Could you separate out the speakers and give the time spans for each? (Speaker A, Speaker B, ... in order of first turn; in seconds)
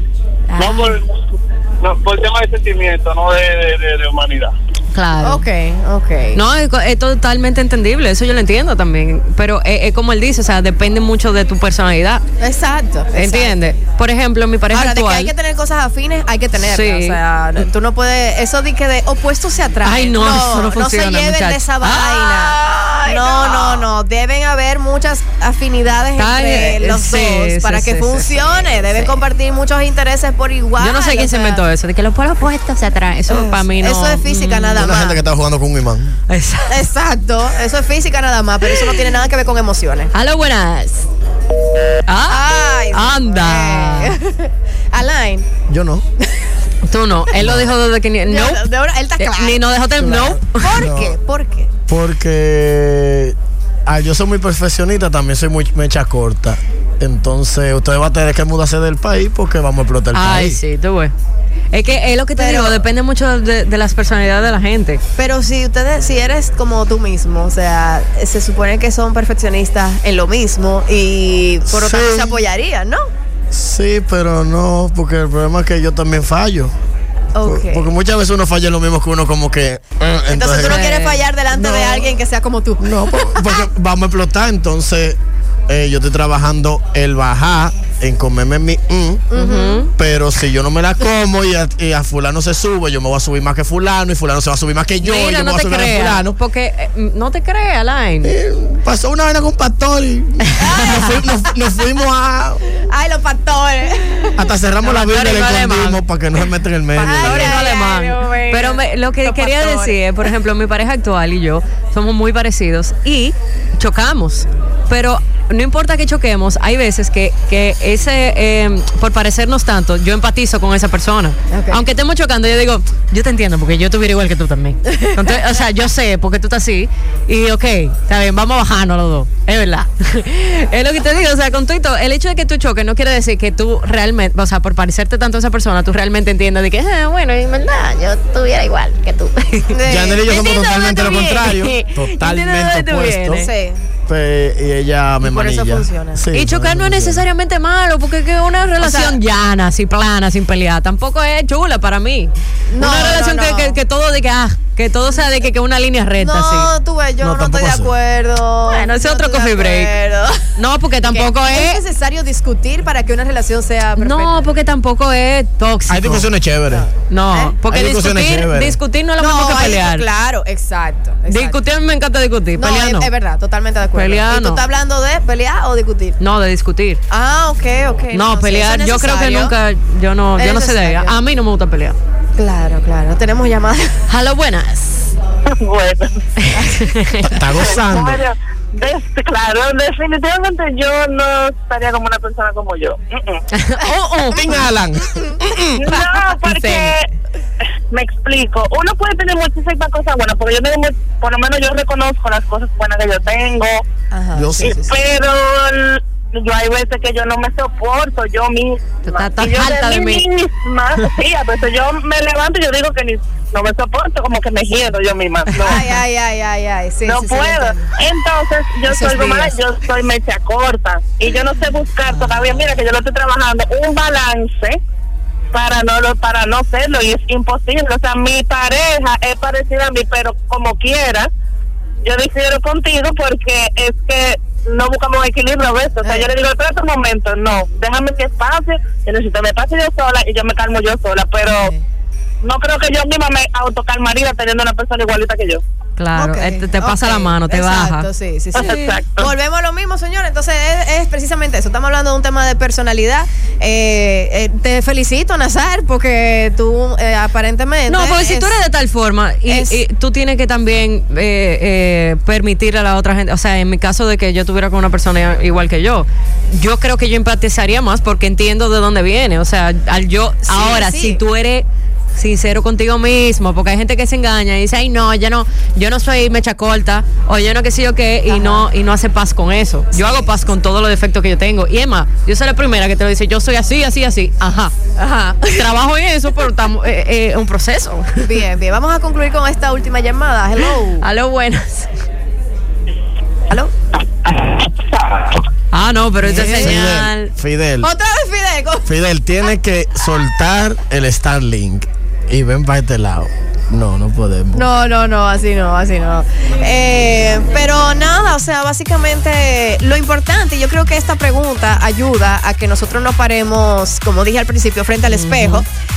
Speaker A: 0.5-0.9, 4.9-5.4, 6.3-12.2, 13.1-15.3, 16.6-17.2, 19.8-23.7, 26.1-29.1, 30.8-34.8, 36.3-36.8, 40.1-41.1, 42.1-44.1, 46.8-48.6, 49.2-50.8, 60.1-61.1, 61.7-65.0, 80.6-81.2, 89.3-89.9, 95.0-98.3, 104.8-106.0, 107.0-139.8, 140.3-143.5, 146.3-156.7, 158.7-159.9, 160.6-161.8, 164.0-166.3, 167.1-170.1, 171.3-173.1, 173.9-174.6, 176.2-177.0, 178.1-182.0, 184.1-185.1, 186.4-187.4, 193.5-194.5, 209.0-210.3, 246.0-249.0, 257.9-284.7, 285.5-288.2, 291.0-291.9, 295.7-297.3, 315.1-315.6
Speaker B: 0.6-1.2, 1.8-4.5
Speaker C: 5.2-6.4, 12.4-13.8, 14.7-31.6, 33.3-35.2, 36.7-40.1, 42.3-45.5, 48.2-51.7, 62.4-62.8, 65.2-73.1, 77.3-77.9, 80.3-83.6, 89.3-89.8, 100.6-101.2, 102.7-104.5, 107.0-110.2, 121.5-121.8, 139.7-140.8, 143.3-143.8, 145.2-146.2, 148.8-149.2, 152.7-153.8, 155.1-155.5, 156.2-160.5, 161.0-164.3, 166.7-167.5, 169.2-171.6, 172.6-176.2, 177.1-179.5, 180.3-181.2, 182.4-183.9, 186.5-186.8, 194.3-194.7, 196.1-196.9, 204.1-205.0, 215.5-217.9, 218.9-219.5, 222.1-222.7, 236.0-236.3, 241.5-241.8, 246.1-258.6, 259.4-259.8, 270.4-271.2, 278.3-278.7, 279.9-280.4, 285.0-285.7, 288.2-291.1, 296.2-296.8, 297.8-298.9, 304.5-315.6
Speaker D: 34.7-36.1, 45.7-46.0, 47.4-47.7, 50.1-51.1, 51.9-60.6, 71.7-72.5, 73.5-76.7, 77.4-80.9, 81.5-82.1, 82.8-85.2, 85.7-89.3, 89.9-96.3, 98.2-102.6, 104.4-107.6, 139.8-143.4, 144.1-147.2, 157.2-157.9, 165.9-166.9, 167.7-168.8, 187.2-188.2, 194.3-195.9, 204.3-204.8, 296.6-297.9, 298.9-304.7
Speaker E: 185.6-186.2, 187.6-193.4, 195.8-197.1, 197.9-203.8, 204.6-215.8, 217.0-224.8, 225.5-231.3, 232.0-241.7, 242.4-245.6, 248.5-249.3